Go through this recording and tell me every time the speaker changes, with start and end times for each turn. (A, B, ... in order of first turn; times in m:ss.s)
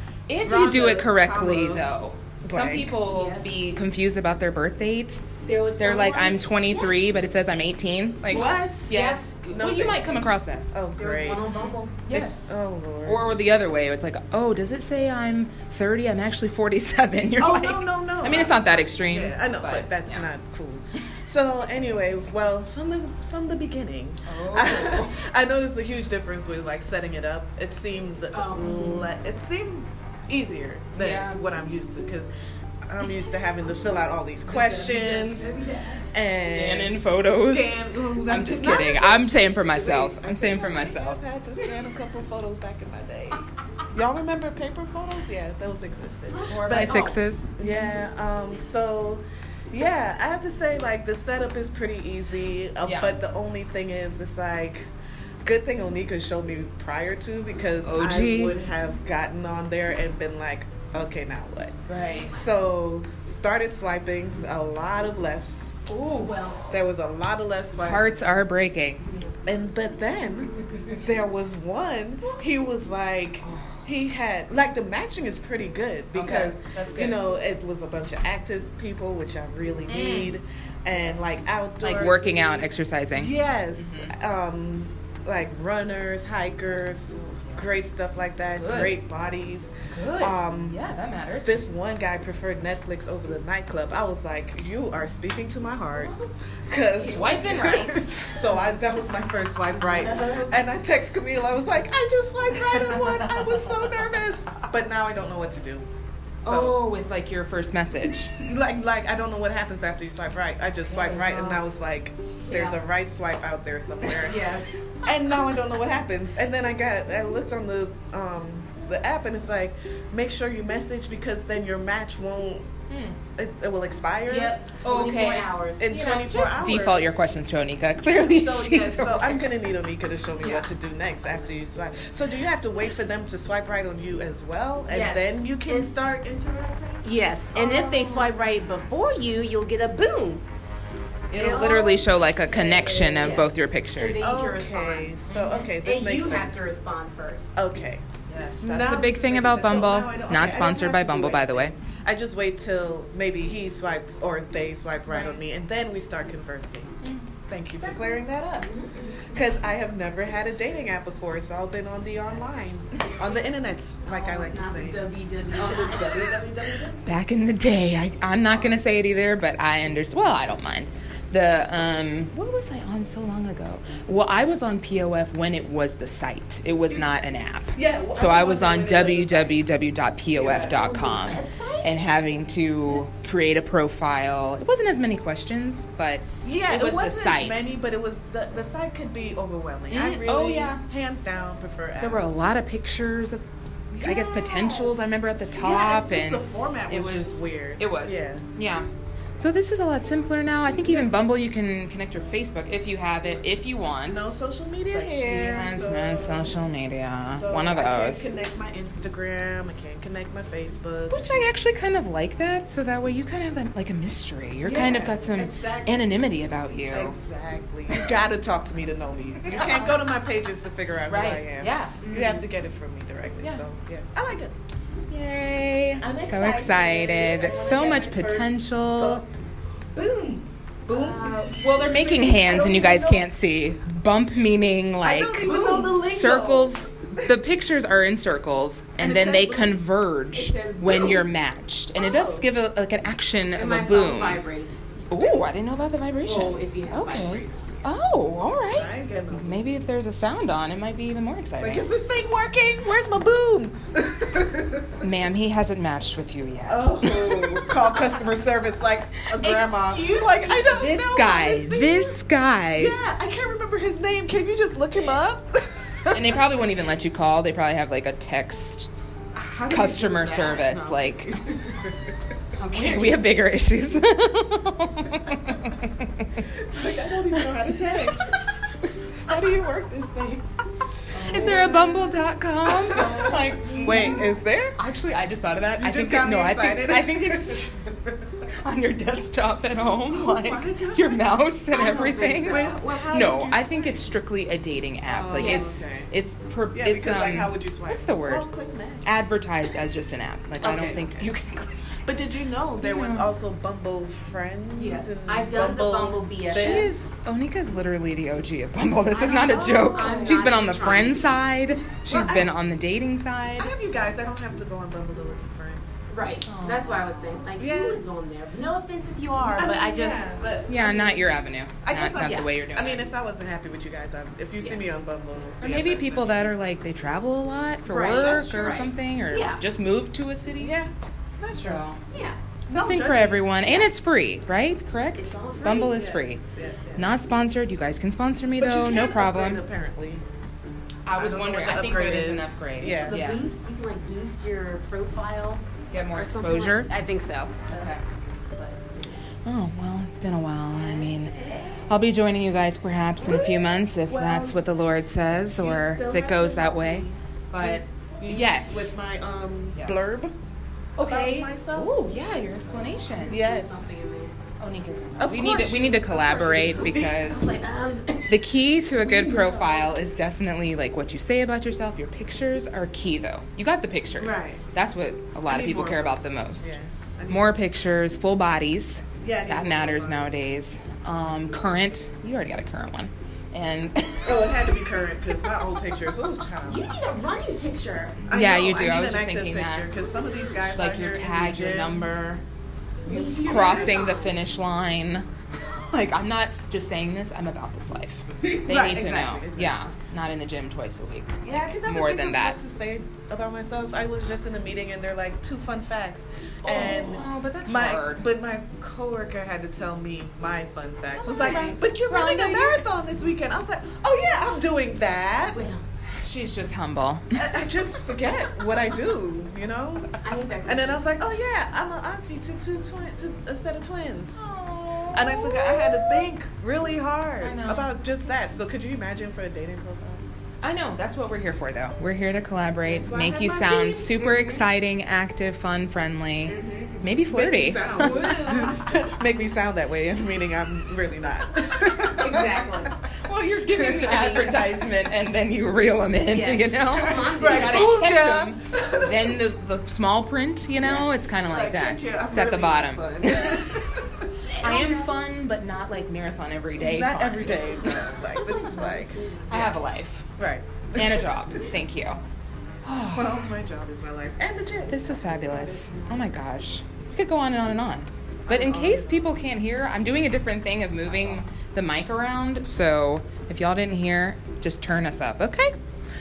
0:00.3-0:05.2 A
0:00.4-0:01.9 B
0:02.4-0:03.0 B
0:03.1-0:03.6 C
0:05.4-0:07.0 C
0:05.8-0:10.7 A
0:08.3-0:09.0 B
0:08.9-0:09.3 C
0:09.5-0:10.2 B
0:10.7-0:11.4 B
0:11.0-0:12.0 C
0:11.5-0:20.3 A
0:12.1-0:13.3 B
0:17.4-0:32.3 B
0:24.3-0:25.1 A
0:28.3-0:29.1 C
0:31.0-0:31.4 A
0:32.9-0:35.5 B
0:34.5-0:36.1 C
0:36.1-0:54.8 B
0:36.2-0:41.2 A
0:46.3-0:47.9 C
0:46.5-0:47.5 A
0:52.8-0:53.2 A
0:55.4-1:05.8 B
0:57.8-0:58.6 A
1:01.9-1:02.4 A
1:05.9-1:06.4 A
1:06.2-1:06.8 C
1:06.6-1:08.1 B
1:07.8-1:09.0 A
1:09.0-1:09.3 C
1:09.5-1:30.8 B
1:13.4-1:13.9 A
1:16.1-1:17.2 A
1:19.9-1:20.4 A
1:21.0-1:24.2 A
1:27.4-1:27.7 A
1:28.6-1:29.0 A
1:29.9-1:31.6 A
1:31.4-1:36.1 B
1:35.9-1:38.2 C
1:36.7-1:45.9 B
1:37.0-1:38.3 A
1:39.8-1:40.7 C
1:42.7-1:43.8 A
1:46.4-1:48.3 A
1:46.4-1:46.8 B
1:48.4-1:54.4 B
1:50.9-1:51.6 C
1:52.4-1:52.8 C
1:54.2-1:54.8 C
1:55.0-2:02.7 B
2:02.9-2:03.2 A
2:03.4-2:04.6 B
2:04.3-2:05.9 C
2:04.8-2:09.5 A
2:05.8-2:07.4 B
2:08.3-2:18.4 B
2:10.4-2:10.7 C
2:14.9-2:16.0 C
2:17.0-2:20.4 C
2:21.3-2:24.4 A
2:21.3-2:27.5 C
2:21.4-2:21.7 B
2:24.2-2:26.8 B
2:25.3-2:25.7 A
2:27.6-2:28.0 B
2:28.3-2:31.8 A
2:28.6-2:38.7 B
2:37.0-2:37.3 A
2:37.8-2:39.4 C
2:39.3-2:47.0 B
2:44.1-2:46.5 C
2:47.0-3:07.7 A
2:57.7-2:59.6 B
3:00.3-3:00.9 B
3:00.7-3:02.3 C
3:06.4-3:12.6 B
3:09.9-3:10.8 A
3:12.0-3:13.4 A
3:13.9-3:18.5 B
3:14.0-3:18.9 A
3:19.4-3:24.3 A
3:20.7-3:21.4 B
3:24.1-3:26.6 B
3:24.9-3:28.3 A
3:27.2-3:31.2 B
3:31.1-3:37.2 A
3:34.6-3:36.1 B
3:36.9-3:44.5 B
3:39.5-3:40.0 C
3:41.1-3:42.0 A
3:42.0-3:42.4 C
3:45.1-3:49.2 A
3:46.0-3:48.0 C
3:46.0-3:49.3 B
3:49.9-3:50.4 C
3:50.9-3:53.3 B
3:50.9-4:04.4 A
3:51.0-3:51.5 C
3:55.0-3:57.3 B
3:59.0-3:59.8 B
4:00.3-4:01.3 C
4:02.0-4:02.4 C
4:03.6-4:05.4 C
4:05.1-4:11.8 A
4:06.2-4:07.9 C
4:08.7-4:09.6 B
4:11.6-4:15.0 B
4:15.0-4:17.7 A
4:16.7-4:22.2 B
4:19.4-4:20.8 C
4:20.6-4:23.0 A
4:22.8-4:26.5 B
4:26.1-4:28.9 A
4:29.4-4:31.8 B
4:29.7-4:31.4 A
4:32.6-4:33.2 C
4:32.6-4:36.4 A
4:36.6-4:38.4 B
4:39.3-4:40.5 B
4:41.2-4:47.8 A
4:41.2-4:44.8 B
4:41.2-4:41.7 C
4:45.8-4:48.0 B
4:48.6-4:58.5 A
4:50.1-4:51.3 B
4:51.7-4:52.8 C
4:52.5-4:54.0 B
4:55.1-4:56.1 B
4:55.4-4:55.7 C
4:56.8-4:59.1 B
4:59.0-5:02.0 A
5:00.6-5:01.3 B
5:02.0-5:07.2 B
5:02.8-5:03.3 A
5:04.8-5:07.0 C
5:06.5-5:13.8 A
5:09.1-5:11.4 C
5:12.0-5:12.6 B
5:13.6-5:16.0 B
5:16.1-5:20.3 C
5:16.5-5:17.5 A
5:17.6-5:18.0 B
5:19.5-5:26.5 B
5:20.7-5:23.1 A
5:22.2-5:22.5 C
5:25.6-5:30.8 A
5:27.9-5:29.6 C
5:28.2-5:28.8 B
5:30.6-5:31.8 B
5:31.5-5:32.0 A
5:32.1-5:32.4 C
5:32.7-5:36.4 A
5:32.7-5:33.5 B
5:33.7-5:34.0 C
5:35.1-5:36.0 C
5:35.8-5:37.2 B
5:37.0-5:39.6 A
5:38.6-5:40.2 B
5:41.1-5:43.4 A
5:41.2-5:43.2 B
5:42.8-5:49.1 C
5:45.9-5:46.9 A
5:47.7-5:48.0 A
5:49.5-5:51.4 A
5:50.8-5:51.6 B
5:51.9-5:58.9 A
5:53.2-5:54.6 B
5:55.6-6:00.3 B
5:59.8-6:00.2 A
6:01.0-6:03.4 A
6:01.0-6:01.9 B
6:02.6-6:04.4 C
6:03.3-6:04.1 B
6:04.6-6:07.6 A
6:05.2-6:07.2 B
6:06.9-6:10.0 C
6:08.3-6:16.8 A
6:14.2-6:14.6 B
6:15.5-6:17.6 B
6:17.3-6:24.6 A
6:19.2-6:20.5 B
6:24.2-6:26.9 B
6:26.7-6:28.2 C
6:28.3-6:32.0 B
6:28.3-6:29.9 A
6:30.7-6:32.4 A
6:33.0-6:34.4 C
6:33.0-6:42.6 A
6:33.4-6:34.1 B
6:38.7-6:39.8 B
6:41.4-6:55.6 B
6:46.6-6:48.3 A
6:51.2-6:52.9 A
6:51.4-6:51.7 C
6:55.4-6:55.8 C
6:56.1-6:57.5 A
6:57.3-7:00.2 B
7:00.2-7:01.0 C
7:00.7-7:04.5 B
7:04.4-7:06.3 A
7:05.1-7:10.2 B
7:07.4-7:07.9 A
7:10.6-7:18.7 A
7:12.9-7:14.6 B
7:16.5-7:17.1 C
7:17.3-7:22.9 B
7:18.0-7:18.8 C
7:22.1-7:22.9 C
7:23.2-7:33.8 A
7:23.7-7:24.8 B
7:24.1-7:24.4 C
7:26.3-7:28.1 C
7:27.2-7:29.4 B
7:30.8-7:34.1 B
7:34.5-7:35.2 C
7:34.6-7:38.1 A
7:36.8-7:39.7 B
7:38.2-7:39.7 C
7:39.5-7:40.3 A
7:40.4-7:41.8 B
7:41.0-7:42.2 A
7:42.8-7:43.5 A
7:43.1-7:46.0 B
7:44.9-7:55.7 A
7:48.5-7:49.4 B